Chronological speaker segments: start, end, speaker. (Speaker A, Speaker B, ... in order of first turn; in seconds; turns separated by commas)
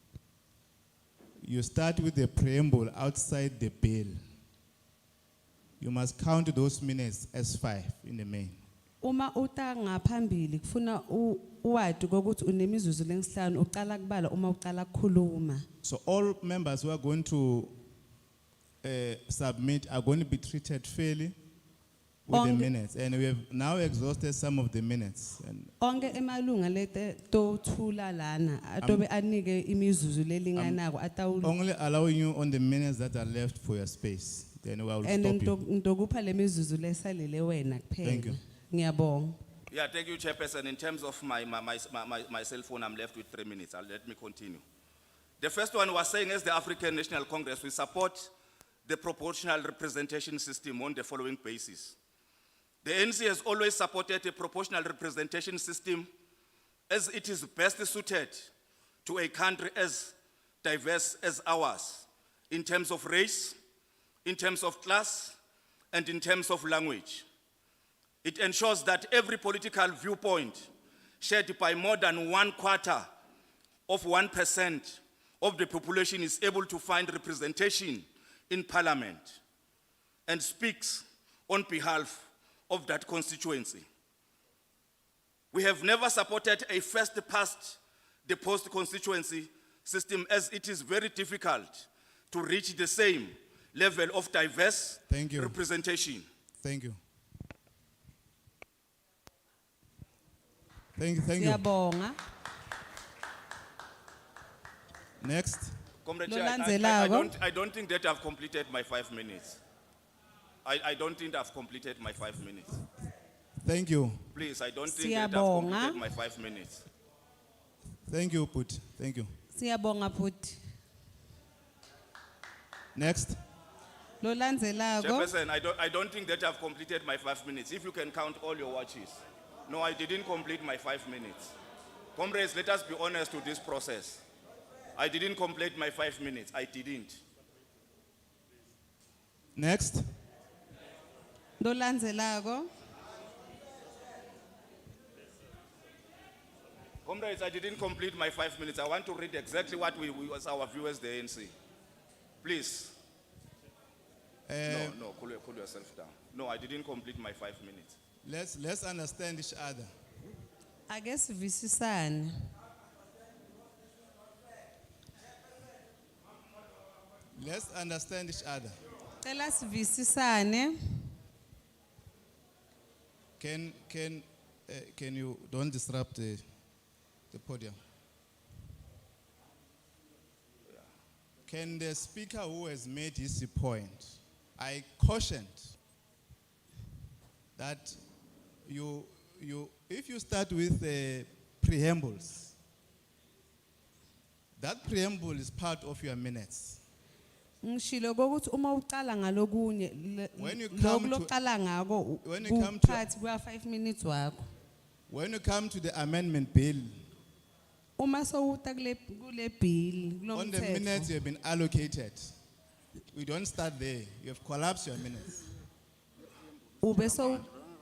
Speaker A: 1.4-4.2, Speaker A: 5.8-8.6, Speaker B: 9.0-15.6, Speaker A: 15.8-17.7, Speaker A: 18.8-21.3, Speaker A: 22.3-25.7, Speaker B: 22.3-22.7, Speaker B: 25.8-31.5, Speaker A: 31.4-35.5, Speaker B: 35.0-39.4, Speaker A: 38.0-38.4, Speaker C: 39.7-44.6, Speaker C: 45.4-48.3, Speaker C: 48.8-52.0, Speaker C: 52.8-56.1, Speaker C: 56.9-58.5, Speaker C: 59.0-63.6, Speaker C: 64.2-65.3, Speaker C: 65.9-67.2, Speaker C: 68.2-73.0, Speaker C: 73.9-79.4, Speaker C: 80.3-83.8, Speaker C: 85.5-96.2, Speaker A: 95.1-95.5, Speaker A: 96.6-97.0, Speaker A: 101.0-101.6, Speaker B: 101.4-102.2, Speaker A: 105.2-105.7, Speaker C: 106.0-109.6, Speaker B: 106.2-107.3, Speaker C: 110.6-112.7, Speaker A: 113.6-114.2, Speaker C: 114.3-116.8, Speaker B: 114.9-116.0, Speaker A: 118.1-119.3, Speaker B: 119.5-120.6, Speaker A: 122.9-123.4, Speaker B: 124.2-125.3, Speaker C: 125.0-131.5, Speaker C: 132.2-134.2, Speaker C: 134.9-137.2, Speaker A: 139.6-140.0, Speaker B: 141.6-142.7, Speaker C: 147.0-151.5, Speaker C: 152.4-152.9, Speaker A: 154.5-154.9, Speaker C: 154.7-157.9, Speaker A: 158.2-159.9, Speaker B: 160.9-162.5, Speaker A: 167.4-168.8, Speaker B: 169.2-170.7, Speaker A: 173.4-176.4, Speaker A: 177.3-177.8, Speaker A: 181.4-185.8, Speaker A: 187.6-188.0, Speaker A: 188.7-192.5, Speaker A: 194.6-196.8, Speaker B: 197.6-204.4, Speaker A: 200.4-201.3, Speaker A: 202.2-203.0, Speaker A: 205.1-206.9, Speaker B: 208.0-211.1, Speaker A: 210.3-212.3, Speaker A: 213.1-215.4, Speaker B: 216.8-217.5